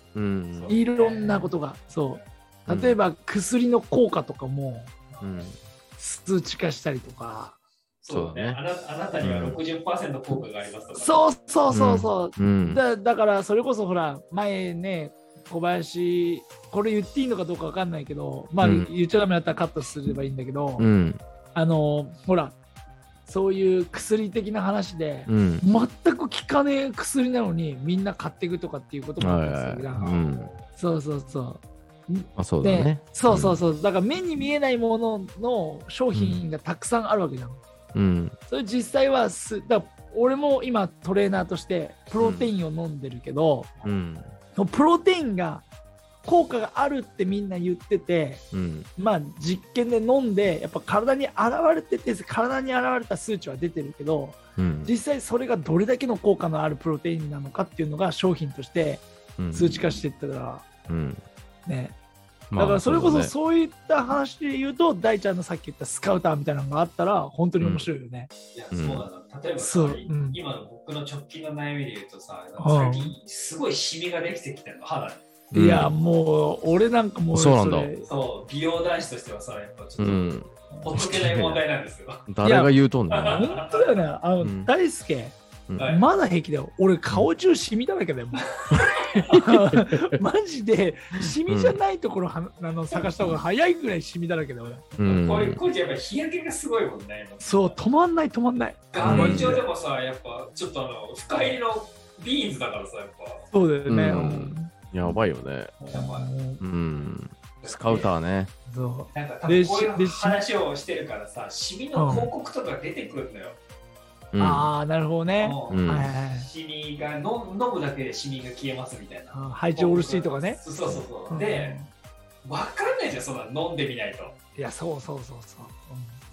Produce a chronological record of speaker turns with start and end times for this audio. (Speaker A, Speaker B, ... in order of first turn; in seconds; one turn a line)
Speaker A: 0.1-0.8
Speaker B: 0.5-1.5
Speaker C: 0.7-4.9
Speaker A: 2.7-3.0
Speaker A: 5.2-5.5
Speaker C: 6.0-7.6
Speaker B: 8.0-11.3
Speaker A: 8.1-8.6
Speaker A: 9.2-9.6
Speaker C: 10.9-20.9
Speaker A: 11.7-12.8
Speaker A: 18.6-18.9
Speaker A: 20.8-21.2
Speaker C: 21.5-22.6
Speaker C: 23.2-30.2
Speaker A: 25.3-25.6
Speaker A: 29.2-30.5
Speaker B: 29.9-30.7
Speaker C: 30.8-37.6
Speaker A: 32.4-33.6
Speaker A: 36.1-36.4
Speaker A: 37.9-38.4
Speaker C: 38.5-43.7
Speaker A: 42.2-42.5
Speaker A: 43.8-44.3
Speaker C: 44.5-45.6
Speaker C: 46.2-48.4
Speaker A: 48.5-48.9
Speaker C: 49.0-60.6
Speaker A: 54.6-54.9
Speaker A: 59.4-59.8
Speaker A: 60.9-61.2
Speaker C: 61.6-61.9
Speaker A: 62.5-63.3
Speaker C: 62.5-68.3
Speaker A: 67.6-67.9
Speaker B: 68.5-75.3
Speaker A: 68.7-69.0
Speaker C: 69.6-70.4
Speaker C: 72.6-73.2
Speaker A: 75.5-76.0
Speaker C: 75.5-78.0
Speaker A: 77.3-77.9
Speaker B: 78.0-82.2
Speaker A: 80.0-81.6
Speaker A: 82.3-83.5
Speaker C: 82.4-82.7
Speaker B: 83.1-83.9
Speaker C: 83.3-88.8
Speaker A: 84.4-84.7
Speaker B: 85.8-86.0
Speaker B: 88.7-89.2
Speaker C: 89.3-95.0
Speaker A: 91.2-91.8
Speaker A: 95.0-95.6
Speaker B: 95.0-97.8
Speaker C: 97.4-99.6
Speaker B: 98.9-103.5
Speaker A: 99.0-99.6
Speaker C: 103.5-105.2
Speaker A: 103.9-105.8
Speaker B: 105.8-106.3
Speaker C: 105.9-106.6
Speaker A: 106.6-108.5
Speaker B: 107.6-108.1
Speaker C: 108.7-110.4
Speaker B: 109.1-113.6
Speaker C: 111.9-112.3
Speaker A: 114.3-114.7
Speaker C: 114.4-116.5
Speaker B: 115.4-121.8
Speaker A: 115.7-116.1
Speaker C: 119.3-120.6
Speaker C: 121.3-121.9
Speaker B: 122.4-124.3
Speaker C: 124.5-126.2